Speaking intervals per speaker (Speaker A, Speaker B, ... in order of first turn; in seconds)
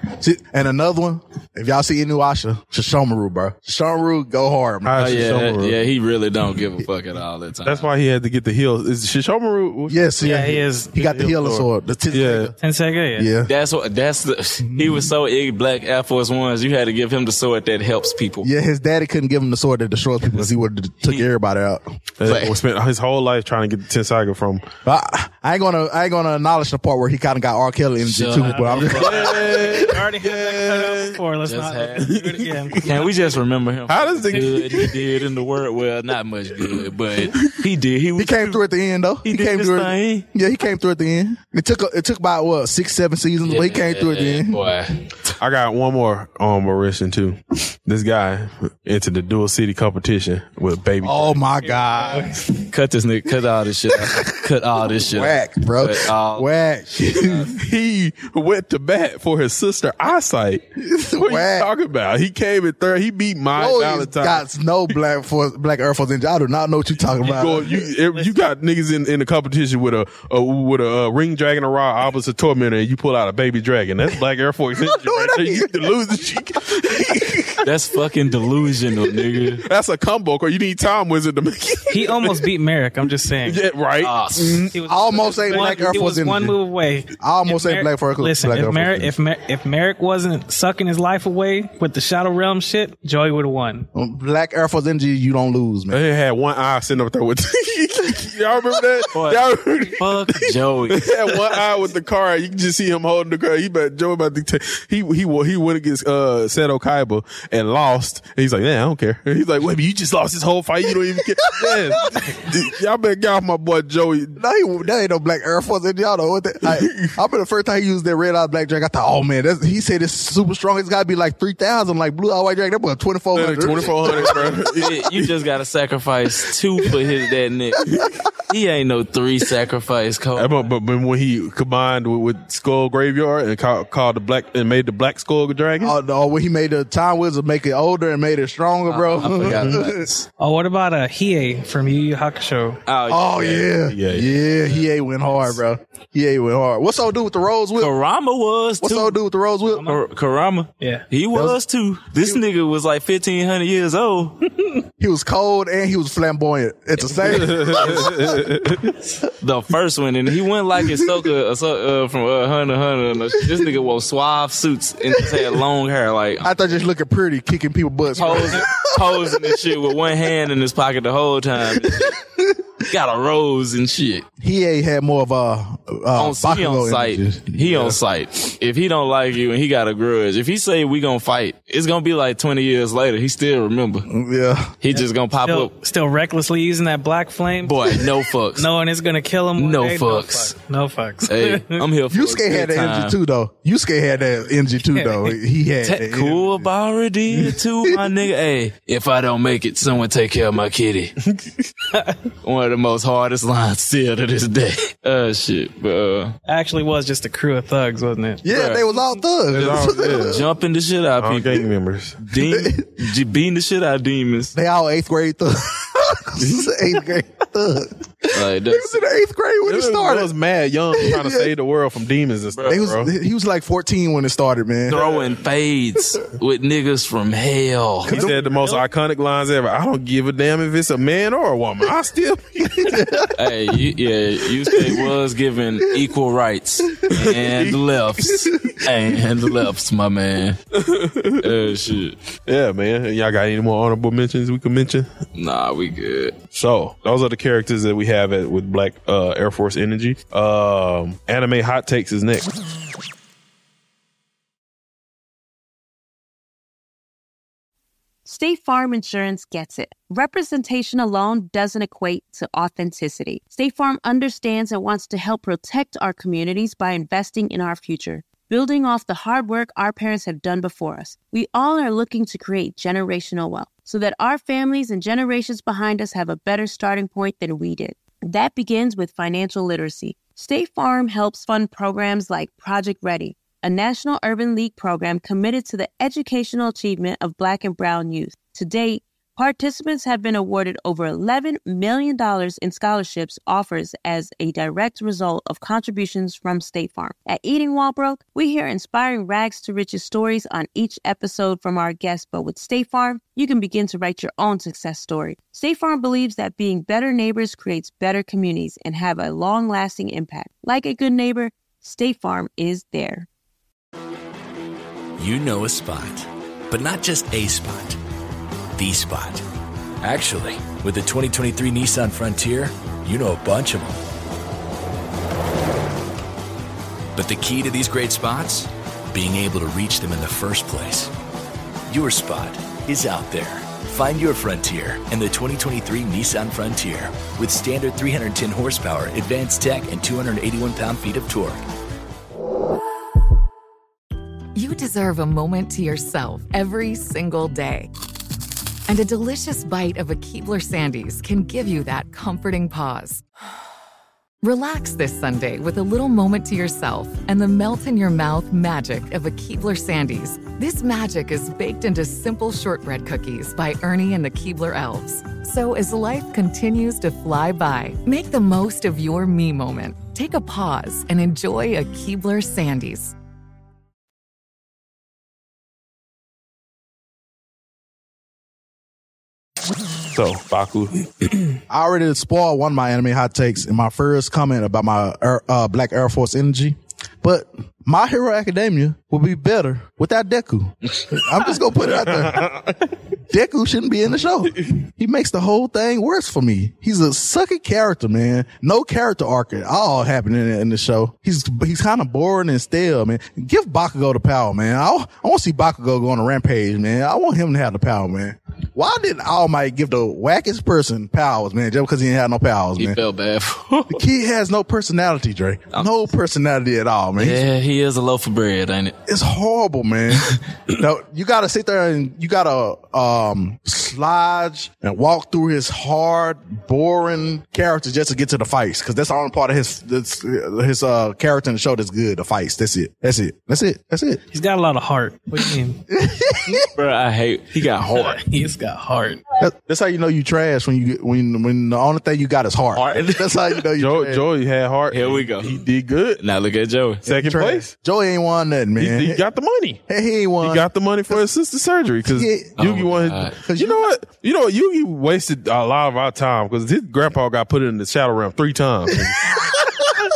Speaker A: 0.2-5.3, 9.9-12.5, 13.2-13.5, 14.8-15.0, 18.4-22.5, 24.9-29.7, 38.2-44.6, 51.0-52.5, 53.9-57.5, 60.8-61.7, 63.5-67.8, 74.8-75.9, 84.9-86.6, 87.2-89.1, 94.0-96.0, 111.5-112.4, 114.4-124.6, 135.8-140.1, 143.1-147.9, 148.8-149.9, 155.0-158.3, 166.4-169.6, 171.9-172.2, 174.4-178.0, 184.1-184.8, 192.1-196.7, 197.3-198.0, 208.4-210.4, 212.4-213.0, 214.5-220.3, 220.9-221.5, 222.7-225.1, 228.1-228.7, 232.8-233.3, 381.7-392.5, 393.3-413.0, 413.9-417.4, 419.1-434.2, 435.9-436.7, 439.4-444.2, 447.1-449.2, 449.9-451.2, 452.1-452.6, 453.3-453.9, 459.1-459.8
Speaker B: 4.8-5.8, 7.7-12.5, 22.2-24.6, 28.9-31.2, 32.0-32.9, 33.9-35.0, 45.4-51.4, 57.4-64.4, 67.2-77.6, 79.7-82.5, 83.4-84.8, 95.9-100.4, 100.9-114.4, 116.7-117.2, 123.3-125.3, 127.9-128.2, 130.4-135.9, 139.4-139.8, 143.9-144.4, 157.3-158.9, 201.3-201.7, 209.5-210.4, 211.2-212.2, 216.4-216.7, 219.7-223.1, 228.1-233.2, 237.1-237.8, 240.8-241.5, 242.5-245.1, 246.5-252.5, 380.1-381.5, 392.3-392.7, 443.8-446.2, 447.1-447.7, 448.8-449.8, 450.4-459.4
Speaker C: 5.0-7.9, 13.5-18.5, 28.0-29.8, 31.4-32.1, 32.8-38.6, 39.2-40.2, 43.5-45.3, 52.7-56.5, 57.1-57.4, 77.6-79.6, 84.0-84.7, 99.1-101.5, 123.7-127.8, 128.5-130.7, 138.9-140.3, 142.9-143.8, 147.8-149.2, 149.8-154.4, 157.3-157.9, 159.4-166.5, 168.2-172.2, 172.9-174.3, 176.2-184.1, 184.8-185.7, 187.6-188.7, 189.6-190.6, 191.3-193.2, 195.8-201.2, 202.4-206.4, 209.6-211.7, 212.2-214.5, 218.3-219.1, 222.5-222.8, 224.9-228.3, 233.4-240.6, 241.4-242.2, 245.3-246.4, 412.8-414.0, 417.2-419.0, 436.8-438.2, 442.8-443.4, 444.9-445.6, 446.2-447.1, 452.6-453.4
Speaker D: 10.2-10.9, 12.6-13.3, 28.4-33.2, 51.8-52.3, 81.9-83.6, 84.7-93.9, 140.4-142.8, 149.7-150.0, 150.8-151.1, 184.9-191.9, 206.5-208.6, 434.3-435.8, 438.0-439.2
Speaker E: 258.2-313.3
Speaker F: 315.2-318.0, 318.8-319.4, 320.0-324.0, 327.2-331.1, 331.9-341.6
Speaker G: 344.5-347.9, 348.9-353.2, 354.4-373.2